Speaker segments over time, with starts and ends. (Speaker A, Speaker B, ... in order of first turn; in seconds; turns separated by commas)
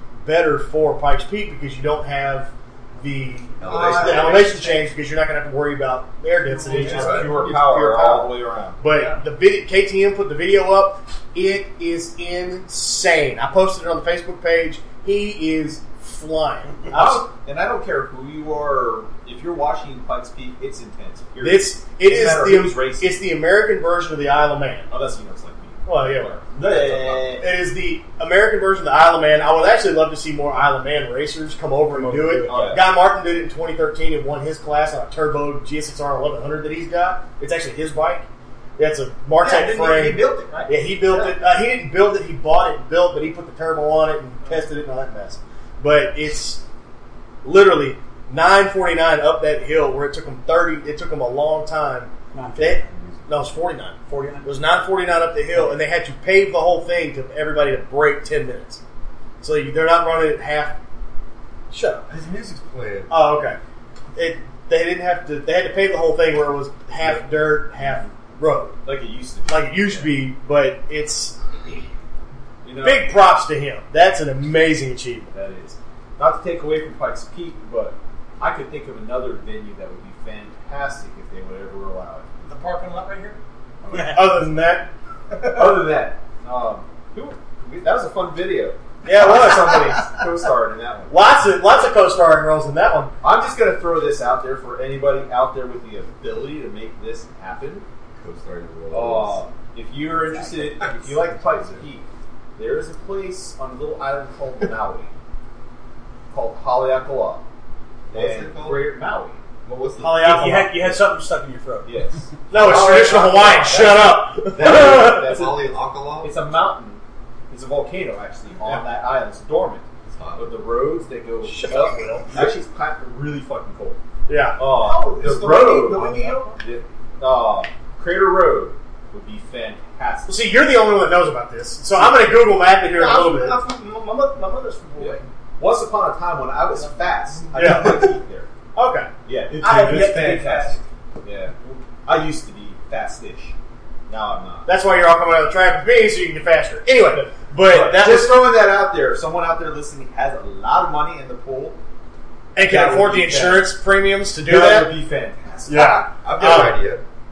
Speaker A: 0.2-17.2, Speaker B: 3.6-4.5, Speaker C: 3.7-4.9, Speaker C: 6.5-7.3, Speaker D: 6.7-8.8, Speaker B: 6.8-7.5, Speaker C: 8.9-9.2, Speaker D: 16.9-23.1, Speaker A: 21.4-24.9, Speaker D: 24.9-27.4, Speaker A: 25.9-26.4, Speaker B: 26.6-27.1, Speaker A: 27.4-38.3, Speaker E: 31.9-32.8, Speaker D: 32.5-32.8, Speaker A: 38.8-46.6, Speaker C: 39.4-41.3, Speaker A: 47.4-58.8, Speaker E: 52.3-53.2, Speaker E: 54.1-54.5, Speaker A: 59.4-60.8, Speaker A: 61.7-62.0, Speaker B: 62.1-63.1, Speaker A: 63.1-63.6, Speaker A: 64.2-68.8, Speaker D: 68.8-70.2, Speaker A: 69.5-71.4, Speaker D: 72.6-73.1, Speaker A: 72.8-75.3, Speaker D: 75.3-82.3, Speaker C: 82.4-83.4, Speaker D: 83.9-84.2, Speaker E: 83.9-84.3, Speaker A: 84.1-84.9, Speaker D: 85.5-91.2, Speaker A: 89.0-89.9, Speaker A: 91.1-93.1, Speaker D: 93.2-97.9, Speaker B: 98.2-99.4, Speaker D: 98.9-105.1, Speaker B: 100.3-101.8, Speaker D: 106.3-107.4, Speaker B: 108.1-108.9, Speaker D: 108.1-109.4, Speaker B: 109.7-110.7, Speaker E: 110.0-112.0, Speaker A: 110.3-110.5, Speaker D: 111.9-119.8, Speaker A: 112.5-115.3, Speaker B: 114.7-116.3, Speaker B: 120.1-120.5, Speaker D: 120.4-124.0, Speaker A: 121.5-122.3, Speaker A: 124.3-124.6, Speaker D: 124.6-130.4, Speaker C: 124.7-126.6, Speaker A: 130.3-133.6, Speaker C: 132.9-135.2, Speaker D: 135.0-138.5, Speaker A: 137.5-138.2, Speaker A: 138.8-139.1, Speaker D: 139.2-143.5, Speaker C: 139.6-140.8, Speaker D: 144.1-144.7, Speaker A: 144.7-148.4, Speaker D: 147.1-151.8, Speaker A: 152.6-154.9, Speaker D: 152.7-153.7, Speaker D: 154.4-156.1, Speaker A: 155.7-156.8, Speaker B: 156.2-157.0